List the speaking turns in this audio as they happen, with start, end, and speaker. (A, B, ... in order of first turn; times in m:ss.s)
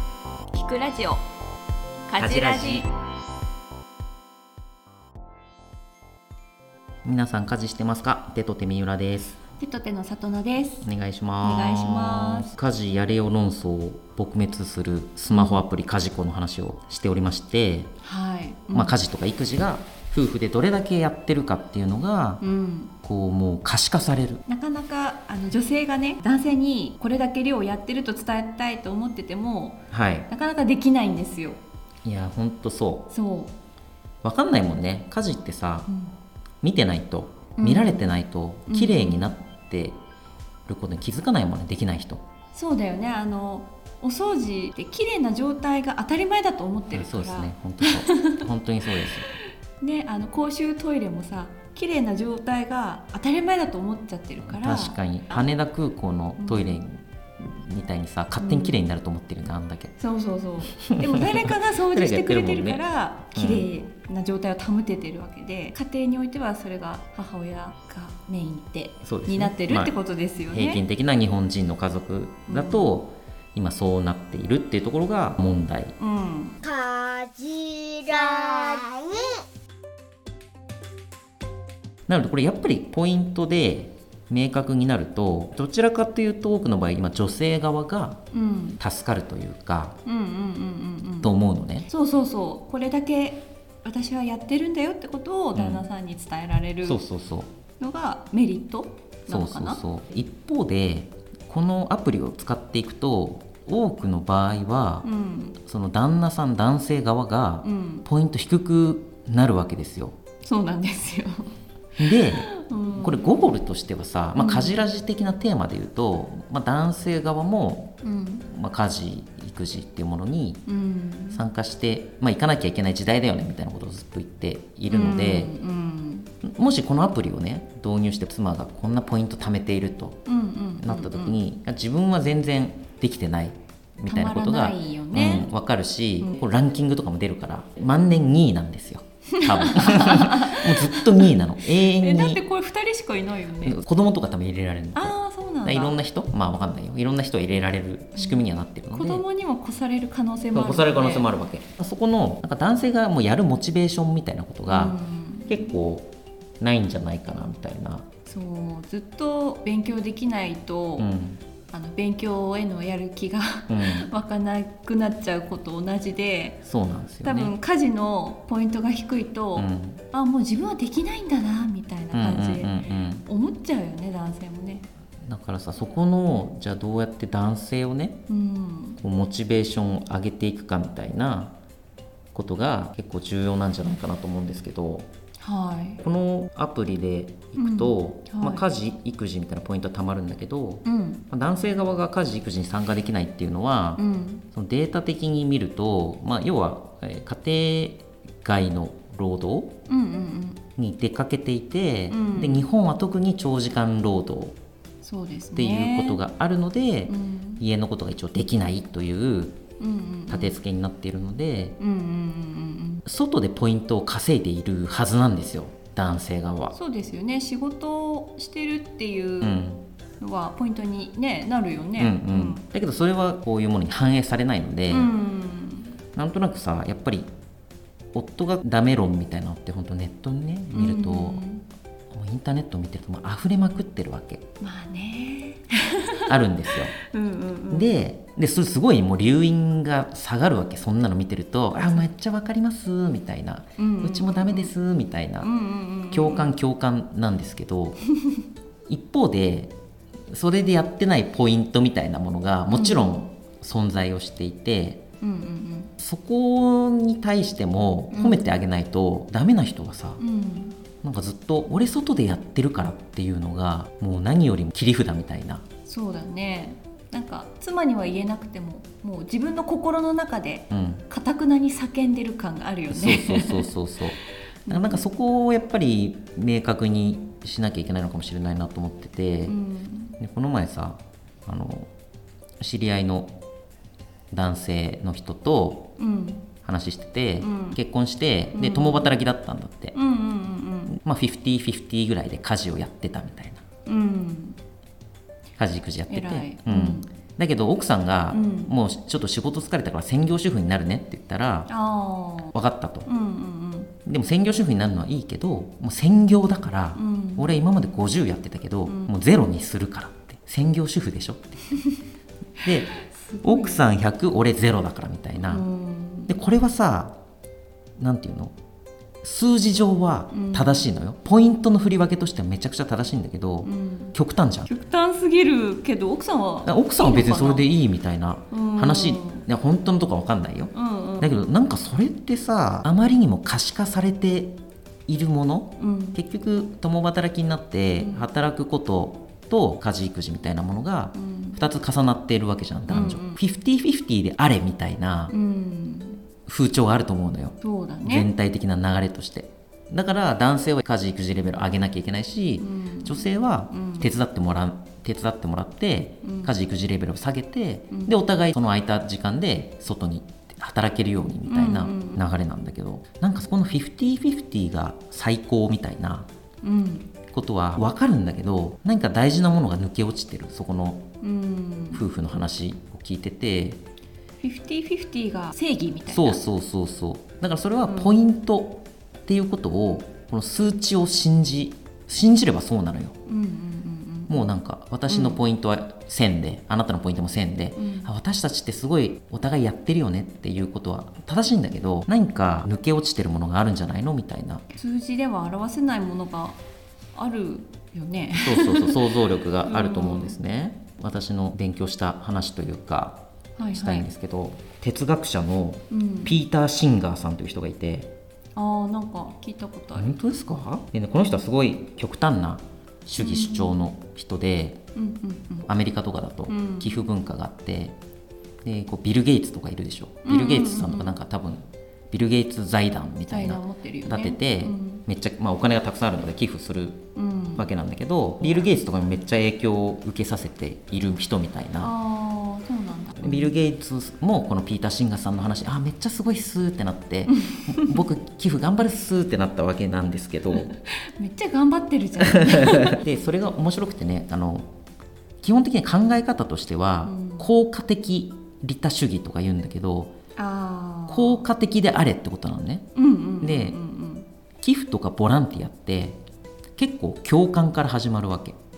0:00.5-0:01.2 A
0:02.1-0:02.9 A
0:02.1-0:02.9 B
0:07.0-0:09.3 B
0:09.5-0:10.9 A
0:10.8-0:17.9 B
0:11.4-0:12.5 A
0:15.3-0:15.6 A
0:18.0-0:19.0 A
0:18.7-0:22.4 B
0:22.4-0:22.9 A
0:23.0-0:24.4 B
0:24.5-0:31.6 A
0:29.9-0:30.3 B
0:32.0-0:33.1 B
0:33.1-0:33.5 A
0:34.2-0:35.9 B
0:35.9-0:36.1 A
0:36.6-0:40.0 B
0:37.6-0:38.0 A
0:38.7-0:39.2 A
0:40.6-0:42.2 B
0:42.5-0:48.4 A
0:46.9-0:49.3 B
0:49.8-0:55.5 A
0:54.4-1:00.0 B
0:56.4-0:56.8 A
0:58.4-0:58.8 A
1:00.0-1:10.8 A
1:00.7-1:02.8 B
1:03.3-1:03.7 B
1:09.0-1:10.0 B
1:10.5-1:16.0 B
1:12.5-1:12.9 A
1:16.0-1:16.6 A
1:16.6-1:19.4 C
1:22.1-1:28.2 B
1:28.3-1:28.8 A
1:28.8-1:30.0 B
1:30.0-1:31.3 A
1:31.2-1:31.9 B
1:31.9-1:37.0 A
1:35.5-1:35.8 B
1:36.8-1:37.5 B
1:37.8-1:39.8 A
1:39.3-1:45.1 B
1:45.0-1:45.6 A
1:45.6-1:50.1 B
1:47.6-1:48.1 A
1:50.4-1:53.4 A
1:52.0-2:00.6 B
1:54.4-1:54.8 A
1:58.0-1:58.5 A
2:00.6-2:01.5 A
2:01.3-2:05.5 B
2:04.9-2:06.3 A
2:06.4-2:10.2 B
2:10.2-2:11.4 A
2:10.8-2:22.4 B
2:14.1-2:15.5 A
2:19.3-2:23.8 A
2:23.6-2:29.2 B
2:24.9-2:26.0 A
2:28.1-2:31.3 A
2:30.5-2:35.0 B
2:34.7-2:35.7 A
2:35.5-2:38.1 B
2:38.2-2:41.1 A
2:41.0-2:41.4 B
2:41.7-2:46.6 A
2:43.7-2:44.1 B
2:46.6-2:47.5 B
2:47.2-2:54.9 A
2:49.6-2:50.0 B
2:52.1-2:53.3 B
2:55.2-2:58.2 B
2:58.3-2:59.0 A
2:59.0-3:01.6 B
3:02.3-3:05.1 B
3:05.4-3:06.0 A
3:06.0-3:14.0 B
3:07.6-3:08.7 A
3:10.8-3:11.2 A
3:14.0-3:14.4 A
3:14.5-3:19.8 B
3:19.9-3:20.6 A
3:20.8-3:24.6 B
3:22.1-3:22.6 A
3:25.0-3:26.2 A
3:25.5-3:29.6 B
3:27.1-3:27.6 A
3:29.8-3:30.6 A
3:30.3-3:31.8 B
3:31.8-3:33.0 A
3:33.0-3:36.8 B
3:36.7-3:39.6 A
3:39.4-3:39.8 B
3:40.2-3:42.6 A
3:42.0-3:45.1 B
3:44.9-3:46.0 A
3:46.1-3:47.3 B
3:48.1-3:51.4 B
3:50.7-3:51.6 A
3:52.1-3:54.4 B
3:54.6-3:56.4 A
3:56.3-3:57.0 B
3:57.0-3:57.9 A
3:57.7-4:05.5 B
4:03.8-4:04.7 A
4:05.4-4:06.6 A
4:06.1-4:08.0 B
4:08.9-4:09.7 B
4:10.3-4:15.0 B
4:12.7-4:13.2 A
4:15.2-4:15.9 A
4:16.0-4:20.2 B
4:18.1-4:18.5 A
4:20.2-4:20.8 A
4:21.0-4:25.6 B
4:25.8-4:33.7 A
4:30.7-4:31.0 B
4:32.9-4:39.6 B
4:34.6-4:35.0 A
4:39.5-4:40.2 A
4:40.2-4:41.9 B
4:42.6-4:43.3 B
4:44.3-4:45.9 B
4:46.0-4:46.5 A
4:46.6-4:49.9 B
4:47.4-4:47.8 A
4:48.5-4:49.2 A
4:49.9-4:50.9 A
4:50.9-4:53.6 B
4:53.8-4:54.6 A
4:55.6-5:01.7 B
4:56.1-4:57.1 A
4:58.3-4:58.7 A
5:01.7-5:02.5 A
5:02.5-5:03.1 B
5:03.0-5:03.9 A
5:04.0-5:11.6 B
5:06.9-5:07.6 A
5:08.9-5:09.1 A
5:12.6-5:13.8 A
5:12.6-5:15.7 B
5:15.4-5:16.3 A
5:16.3-5:17.2 B
5:18.0-5:18.5 B
5:19.2-5:24.7 B
5:20.3-5:20.9 A
5:23.6-5:27.7 A
5:26.6-5:45.3 B
5:28.5-5:29.5 A
5:30.7-5:31.5 A
5:35.8-5:36.2 A
5:38.0-5:38.3 A
5:41.1-5:41.6 A
5:42.9-5:43.4 A
5:45.3-5:46.2 A
5:46.5-6:06.3 B
5:47.6-5:48.3 A
5:52.6-5:54.1 A
5:56.2-5:56.5 A
5:57.9-5:58.2 A
6:01.5-6:02.2 A
6:06.6-6:07.1 A
6:07.3-6:11.1 B
6:11.2-6:12.0 A
6:11.9-6:13.8 B
6:14.4-6:16.4 A
6:16.1-6:23.1 B
6:17.8-6:18.2 A
6:23.2-6:24.5 A
6:24.3-6:34.6 B
6:25.1-6:25.4 A
6:27.8-6:28.1 A
6:34.7-6:36.6 A
6:37.1-6:40.4 A
6:38.4-6:48.1 B
6:43.6-6:44.1 A
6:45.9-6:46.3 A
6:48.6-6:50.1 A
6:50.0-6:54.8 B
6:53.1-6:53.8 A
6:54.9-6:55.7 A
6:55.6-6:58.0 B
6:56.5-6:57.0 A
6:58.6-7:07.0 B
7:00.2-7:01.2 A
7:03.3-7:05.0 A
7:07.1-7:07.7 A
7:07.6-7:11.9 B
7:11.8-7:13.5 A
7:13.2-7:20.7 B
7:17.5-7:17.8 A
7:20.5-7:23.0 A
7:22.4-7:24.7 B
7:25.4-7:30.2 B
7:27.0-7:27.5 A
7:30.4-7:31.4 A
7:31.1-7:33.8 B
7:32.9-7:34.3 A
7:34.6-7:36.2 B
7:36.8-7:38.6 B